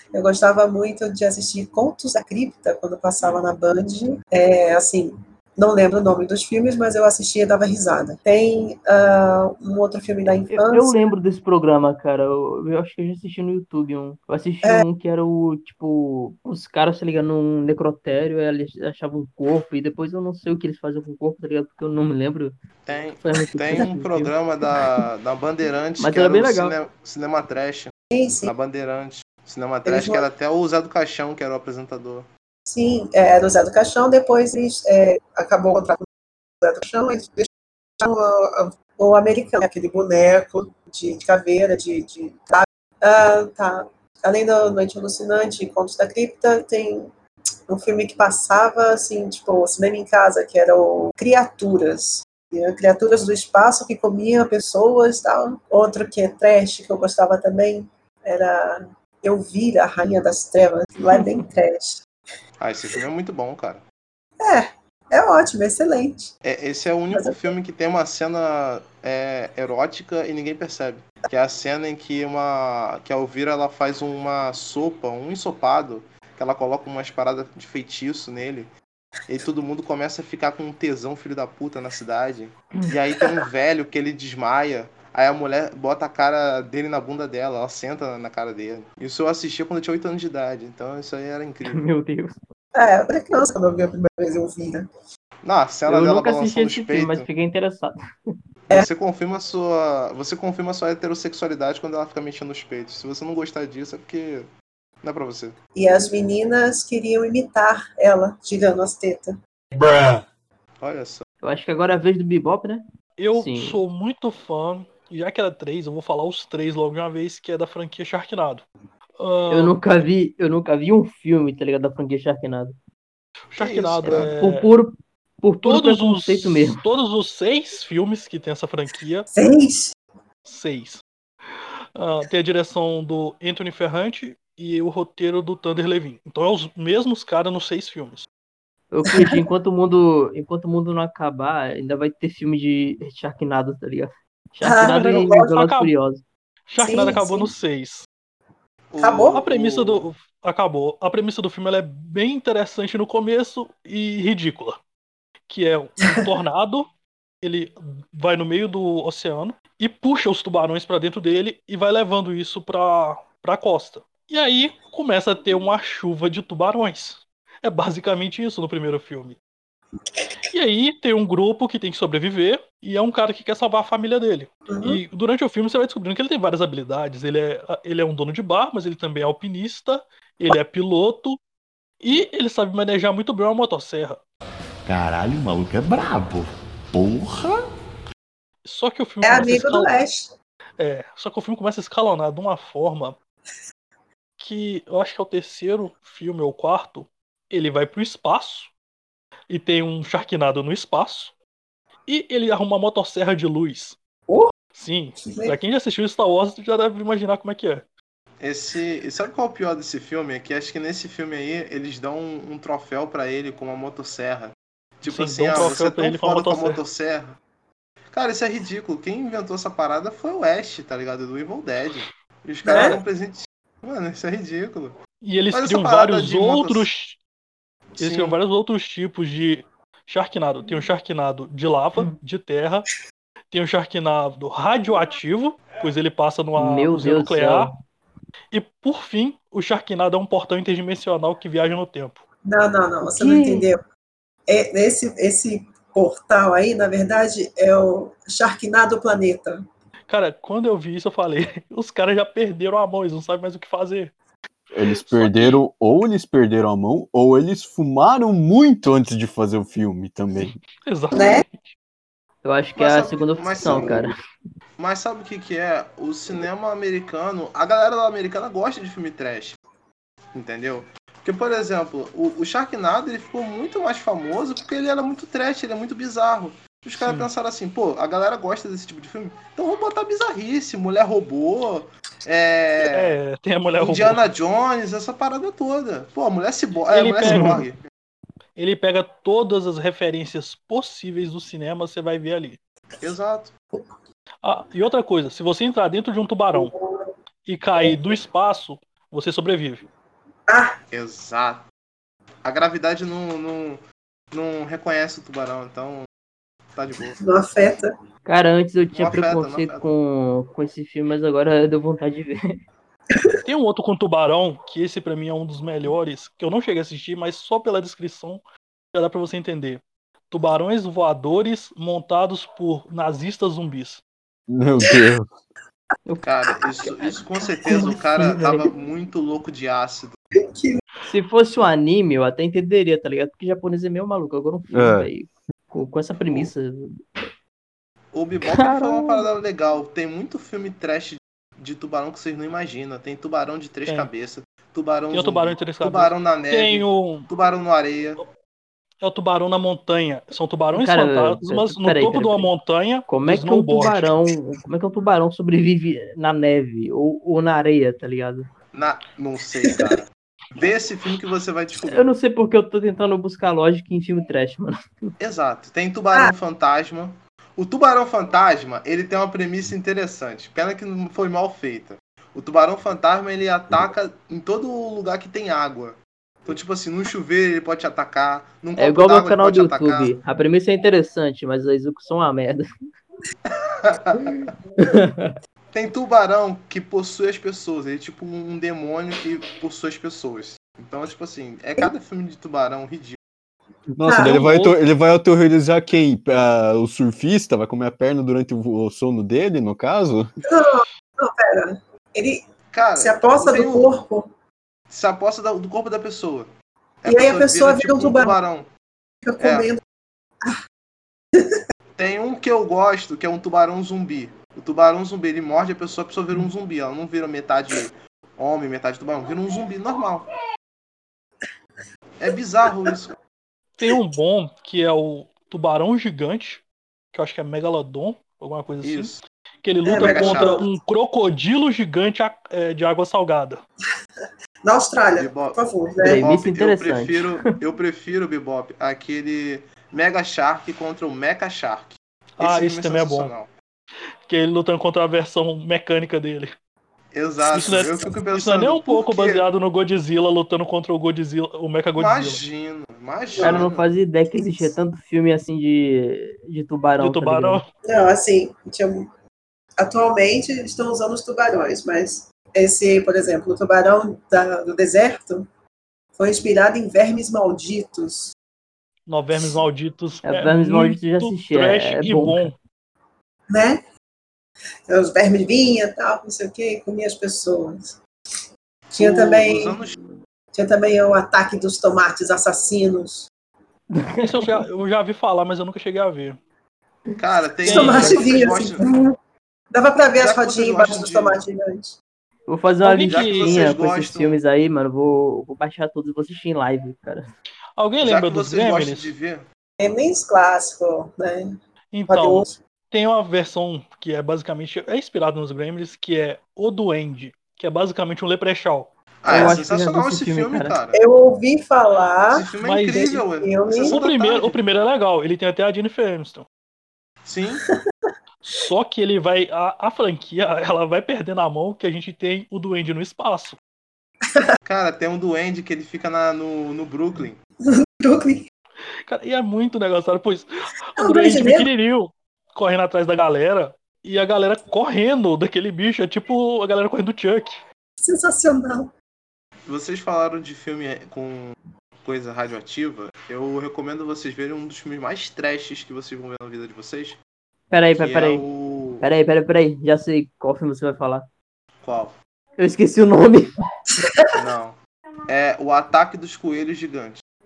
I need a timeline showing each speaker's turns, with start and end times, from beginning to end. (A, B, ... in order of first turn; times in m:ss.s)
0:00.1-0:11.0 A
0:10.5-0:22.5 B
0:22.8-0:27.9 C
0:23.2-0:24.3 B
0:26.0-0:26.8 B
0:28.1-0:28.5 A
0:28.4-0:32.3 C
0:29.8-0:30.2 A
0:32.7-0:36.0 A
0:36.6-0:47.1 A
0:47.7-1:02.0 A
1:02.6-1:03.8 C
1:04.4-1:06.3 A
1:06.4-1:18.7 C
1:19.3-1:31.8 C
1:31.6-1:32.3 B
1:32.8-1:34.9 A
1:35.4-1:37.2 C
1:35.9-1:38.0 B
1:38.7-1:44.5 C
1:45.0-1:45.6 C
1:45.8-1:49.4 A
1:50.8-1:51.2 C
1:51.4-1:52.8 B
1:53.2-1:58.6 D
1:53.3-1:53.8 B
1:59.2-1:59.8 D
1:59.5-2:02.8 B
2:03.5-2:04.7 D
2:03.6-2:04.3 C
2:04.0-2:06.8 B
2:05.6-2:09.3 D
2:09.3-2:09.9 A
2:10.4-2:11.0 D
2:11.9-2:18.3 D
2:18.9-2:26.2 B
2:19.1-2:19.4 A
2:24.6-2:25.5 A
2:24.8-2:25.9 D
2:26.7-2:28.1 D
2:26.8-2:27.5 A
2:28.9-2:30.0 C
2:29.0-2:29.4 A
2:29.4-2:34.8 D
2:35.5-2:36.9 D
2:37.4-2:49.4 D
2:50.5-3:01.4 D
2:54.7-2:55.0 A
3:02.0-3:04.2 D
3:04.9-3:07.6 E
3:08.6-3:09.9 D
3:09.2-3:10.3 A
3:10.8-3:13.2 D
3:14.4-3:18.7 D
3:19.5-3:21.4 D
3:22.1-3:24.0 D
3:24.7-3:27.9 D
3:25.2-3:25.6 A
3:28.4-3:37.4 C
3:35.1-3:36.8 D
3:38.1-3:45.0 C
3:42.6-3:43.0 A
3:45.2-3:47.2 D
3:45.5-3:46.9 C
3:47.9-3:48.4 C
3:48.0-3:52.8 D
3:53.5-3:57.7 D
3:56.6-3:57.7 B
3:58.5-4:02.2 D
4:02.4-4:03.8 A
4:03.0-4:03.7 B
4:04.5-4:09.6 A
4:10.1-4:14.1 D
4:14.7-4:15.5 D
4:14.7-4:20.6 F
4:20.8-4:21.7 D
4:21.1-4:21.4 A
4:22.4-4:24.1 B
4:22.8-4:24.0 C
4:23.6-4:23.9 A
4:24.8-4:29.6 C
4:30.3-4:43.2 C
4:37.0-4:37.3 D
4:42.8-4:44.2 D
4:43.8-4:47.8 C
4:46.9-4:47.6 D
4:48.6-4:52.6 D
4:53.0-4:53.5 C
4:54.4-4:56.7 D
4:56.5-4:57.1 A
4:57.4-4:59.8 D
4:57.8-4:58.2 A
5:00.5-5:00.8 A
5:00.9-5:01.6 C
5:02.4-5:06.1 C
5:06.7-5:07.2 C
5:07.2-5:07.9 A
5:08.2-5:12.4 B
5:08.9-5:09.8 C
5:13.4-5:18.4 D
5:18.9-5:24.0 D
5:24.5-5:25.3 F
5:26.2-5:30.2 C
5:26.8-5:28.7 B
5:27.7-5:28.0 A
5:30.5-5:30.8 A
5:31.0-5:37.0 B
5:34.7-5:35.1 F
5:36.2-5:36.5 C
5:38.1-5:48.2 C
5:38.5-5:39.2 B
5:45.1-5:47.3 D
5:49.0-5:54.2 D
5:50.7-5:52.5 B
5:53.1-5:58.5 B
5:58.7-6:02.1 C
6:01.9-6:05.1 B
6:05.2-6:20.1 C
6:18.8-6:22.6 B
6:23.5-6:24.5 C
6:24.8-6:25.3 B
6:25.7-6:33.2 C
6:33.9-6:40.3 F
6:34.0-6:34.4 A
6:34.1-6:34.8 D
6:40.4-6:42.4 A
6:42.7-6:43.9 C
6:43.0-6:44.3 A
6:44.9-6:46.5 C
6:47.0-6:48.7 C
6:47.0-6:48.3 A
6:49.2-6:49.8 A
6:49.4-6:49.7 C
6:52.0-7:00.3 C
7:02.2-7:03.1 C
7:02.7-7:02.9 A
7:03.8-7:13.6 D
7:08.8-7:09.2 C
7:09.8-7:10.7 A
7:09.9-7:10.6 C
7:14.2-7:16.3 A
7:15.2-7:23.5 C
7:16.0-7:17.3 B
7:22.4-7:23.3 D
7:24.3-7:26.5 D
7:27.1-7:29.5 C
7:27.5-7:32.4 D
7:32.0-7:33.8 C
7:33.4-7:33.6 A
7:33.4-7:37.6 B
7:37.0-7:37.7 D
7:37.8-7:39.1 A
7:39.8-7:45.5 A
7:46.2-7:48.3 A
7:49.1-7:52.6 D
7:50.2-7:52.5 B
7:53.5-7:53.8 A
7:54.9-7:58.0 A
7:58.9-7:59.8 A
7:59.0-7:59.9 C
8:00.5-8:03.3 A
8:04.0-8:04.6 B
8:04.2-8:06.4 D
8:07.2-8:08.9 C
8:07.6-8:08.3 D
8:07.6-8:09.1 A
8:09.7-8:12.0 A
8:10.2-8:11.4 C
8:12.5-8:17.2 B
8:12.8-8:13.7 D
8:13.1-8:14.4 C
8:17.8-8:19.1 D
8:18.0-8:19.4 C
8:19.8-8:21.6 A
8:21.9-8:28.9 D
8:22.1-8:22.6 A
8:29.2-8:31.0 C
8:29.3-8:30.8 B
8:29.3-8:29.6 A
8:30.9-8:34.0 A
8:32.3-8:34.6 C
8:32.6-8:33.2 D
8:33.8-8:36.4 D
8:37.2-8:37.6 C
8:38.4-8:43.6 D
8:44.6-8:47.4 C
8:47.7-8:48.4 A
8:49.1-8:57.6 D
8:51.0-8:51.7 A
8:58.0-8:58.9 A
8:59.6-9:07.2 C
9:07.7-9:08.4 B
9:08.0-9:09.0 C
9:09.0-9:11.3 B
9:11.8-9:12.2 C
9:12.6-9:13.5 B
9:13.9-9:14.2 A
9:14.3-9:17.2 C